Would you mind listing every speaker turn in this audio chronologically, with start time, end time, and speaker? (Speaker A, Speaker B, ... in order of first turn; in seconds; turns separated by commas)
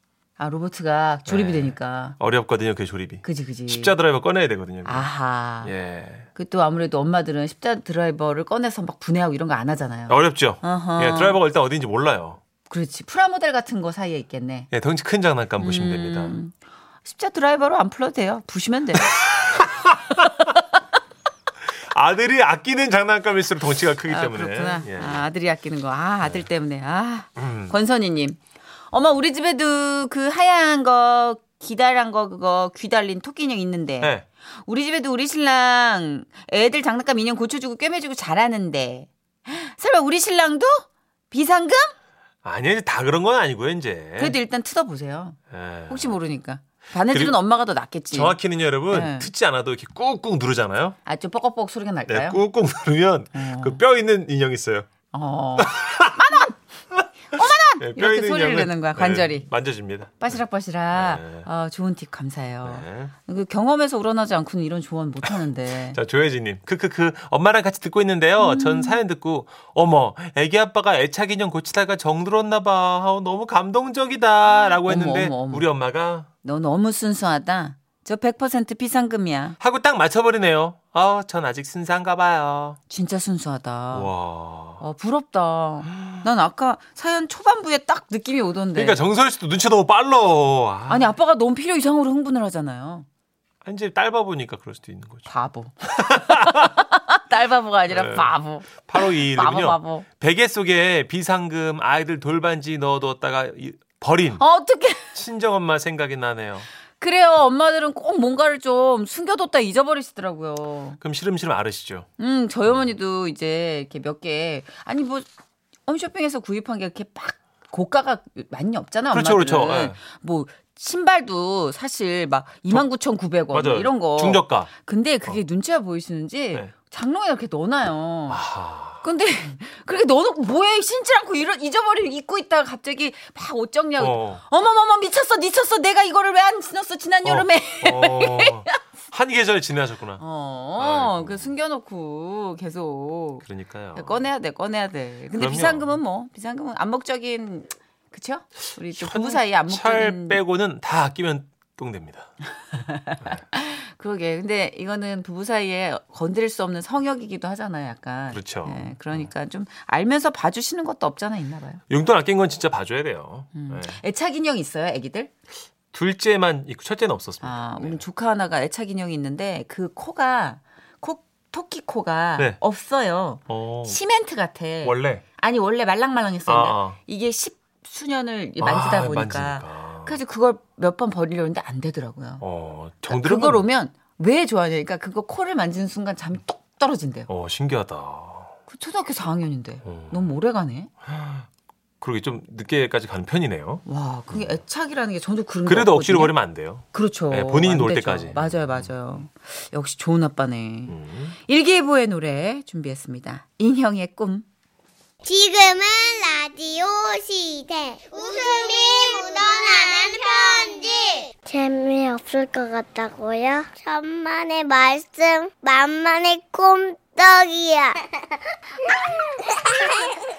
Speaker A: 0.4-2.2, Speaker B: 1.2-5.0, Speaker A: 3.2-4.0, Speaker A: 4.8-5.7, Speaker B: 5.6-6.2, Speaker A: 6.3-11.4, Speaker B: 10.1-12.4, Speaker A: 12.7-14.7, Speaker B: 14.7-16.4, Speaker A: 15.6-19.3, Speaker B: 19.1-20.3, Speaker B: 21.9-25.2, Speaker A: 24.1-28.4, Speaker B: 27.4-27.7, Speaker A: 28.9-41.9, Speaker B: 42.4-44.4, Speaker A: 44.2-45.4, Speaker B: 45.5-46.2, Speaker A: 45.9-48.4, Speaker B: 47.1-47.4, Speaker B: 48.1-51.0, Speaker A: 48.9-49.3, Speaker A: 51.0-52.4, Speaker B: 52.1-54.9, Speaker A: 53.3-53.8, Speaker A: 55.1-56.5, Speaker B: 55.6-56.2, Speaker A: 57.3-59.4, Speaker B: 57.8-60.4, Speaker A: 60.2-66.0, Speaker B: 60.9-61.5, Speaker B: 62.6-63.1, Speaker B: 65.9-76.3, Speaker A: 68.4-69.0, Speaker A: 74.8-75.7, Speaker A: 76.4-79.6, Speaker B: 79.6-82.8, Speaker A: 82.9-84.1, Speaker B: 83.9-84.8, Speaker A: 84.8-89.0, Speaker B: 88.8-91.1, Speaker A: 90.9-93.0, Speaker B: 93.6-95.3, Speaker A: 95.3-100.1, Speaker B: 96.0-96.8, Speaker B: 97.9-104.4, Speaker A: 104.4-105.1, Speaker B: 105.1-106.7, Speaker A: 107.0-111.0, Speaker B: 111.0-112.0, Speaker A: 112.2-115.2, Speaker A: 115.9-128.4, Speaker B: 119.1-120.0, Speaker B: 123.5-124.7, Speaker B: 128.3-129.0, Speaker A: 129.0-138.8, Speaker B: 134.0-134.4, Speaker B: 137.2-140.2, Speaker A: 140.2-150.4, Speaker B: 140.8-141.5, Speaker B: 143.4-144.3, Speaker B: 145.3-146.0, Speaker B: 148.9-152.3, Speaker A: 152.7-161.8, Speaker B: 158.3-159.3, Speaker B: 161.9-164.0, Speaker A: 163.5-165.3, Speaker B: 165.9-168.0, Speaker A: 167.4-182.4, Speaker B: 173.5-174.0, Speaker B: 174.8-175.2, Speaker B: 176.5-177.0, Speaker B: 178.6-180.2, Speaker B: 182.4-183.6, Speaker A: 183.1-187.3, Speaker B: 187.3-188.5, Speaker A: 188.7-190.9, Speaker B: 189.8-190.3, Speaker B: 191.0-191.4, Speaker B: 192.0-194.5, Speaker A: 193.9-196.4, Speaker B: 195.7-199.1, Speaker A: 196.9-204.4, Speaker B: 200.9-201.3, Speaker C: 205.2-218.1, Speaker C: 219.0-220.2